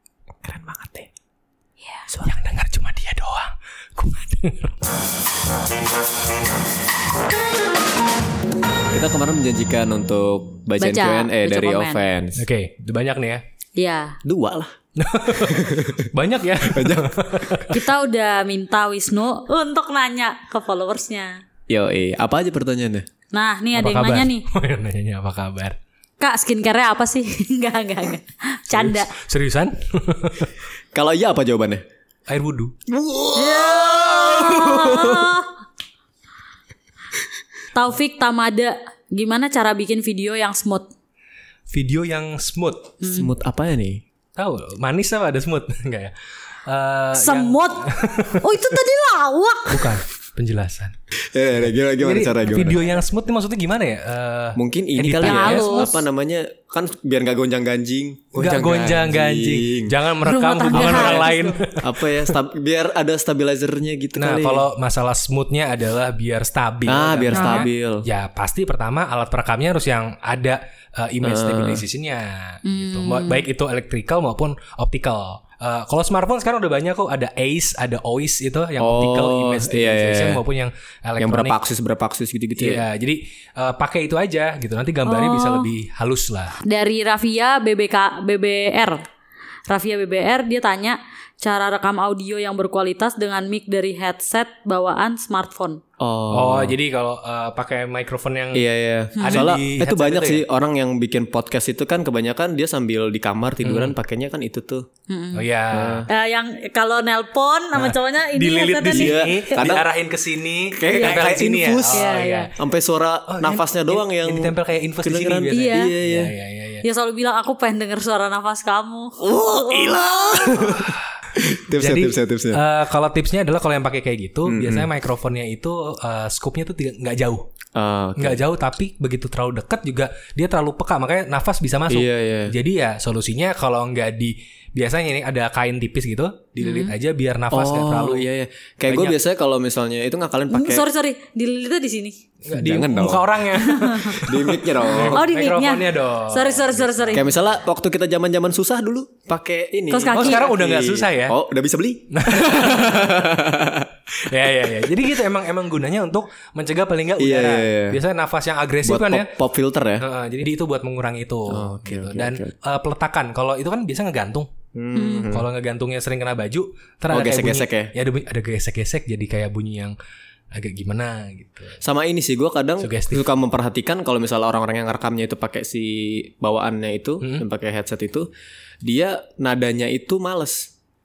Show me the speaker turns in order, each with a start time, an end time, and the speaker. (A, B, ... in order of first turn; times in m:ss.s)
0:00.4-0:01.1 A
0:02.2-0:04.8 B
0:08.9-0:12.4 A
0:10.8-0:12.0 C
0:12.4-0:13.4 B
0:13.8-0:14.2 C
0:14.2-0:14.7 A
0:15.0-0:17.8 B
0:15.4-0:16.0 A
0:16.6-0:17.1 A
0:17.7-0:21.4 C
0:21.7-0:23.1 A
0:23.3-0:24.5 C
0:23.7-0:25.8 B
0:26.2-0:29.1 C
0:28.7-0:30.6 B
0:30.9-0:31.8 A
0:32.3-0:32.7 B
0:32.9-0:35.4 A
0:33.4-0:35.5 C
0:37.7-0:40.9 C
0:41.7-0:43.0 B
0:43.0-0:43.3 C
0:43.1-0:44.0 A
0:44.4-0:46.1 B
0:46.7-0:48.4 B
0:47.1-0:50.0 C
0:49.7-0:50.9 B
0:51.3-0:52.8 A
0:52.0-0:55.9 B
0:54.6-1:00.0 A
0:55.2-0:56.0 C
0:58.4-1:02.3 B
1:00.2-1:01.6 C
1:00.7-1:04.7 A
1:04.2-1:21.6 B
1:06.9-1:08.0 A
1:07.3-1:07.7 C
1:11.2-1:11.8 A
1:12.6-1:13.5 C
1:18.8-1:20.4 A
1:21.2-1:22.8 A
1:22.6-1:26.6 B
1:25.1-1:25.7 C
1:26.6-1:29.0 C
1:29.7-1:35.8 C
1:36.0-1:36.8 A
1:36.3-1:38.6 B
1:38.5-1:44.8 A
1:39.2-1:39.5 C
1:39.2-1:40.4 B
1:43.6-1:44.0 B
1:45.1-1:45.5 C
1:45.4-1:46.1 B
1:45.7-1:46.1 A
1:46.1-1:49.5 C
1:47.8-1:52.5 B
1:48.9-1:49.9 A
1:50.7-1:56.3 A
1:50.9-1:51.4 C
1:51.9-1:52.5 C
1:53.3-1:56.8 B
1:55.5-1:55.9 C
1:56.8-1:59.2 C
1:59.2-2:02.6 A
1:59.8-2:00.0 C
2:00.5-2:00.9 B
2:01.7-2:07.5 B
2:04.5-2:04.9 A
2:07.8-2:08.4 A
2:08.2-2:18.3 B
2:11.9-2:12.5 A
2:16.6-2:17.0 C
2:17.5-2:20.8 A
2:18.9-2:19.2 B
2:20.5-2:22.2 C
2:22.4-2:27.3 B
2:22.5-2:23.3 A
2:23.5-2:24.0 C
2:24.1-2:25.2 A
2:25.1-2:27.2 C
2:27.1-2:33.9 A
2:29.9-2:30.5 C
2:30.1-2:31.4 B
2:32.1-2:33.2 B
2:34.2-2:39.3 B
2:37.2-2:38.0 A
2:38.8-2:40.0 A
2:40.0-2:44.5 B
2:41.5-2:42.5 A
2:44.8-2:45.5 A
2:45.0-2:45.3 C
2:45.3-2:50.0 B
2:47.1-2:47.9 A
2:50.5-2:51.8 B
2:51.8-2:58.3 A
2:52.8-2:53.3 B
2:58.8-3:00.7 A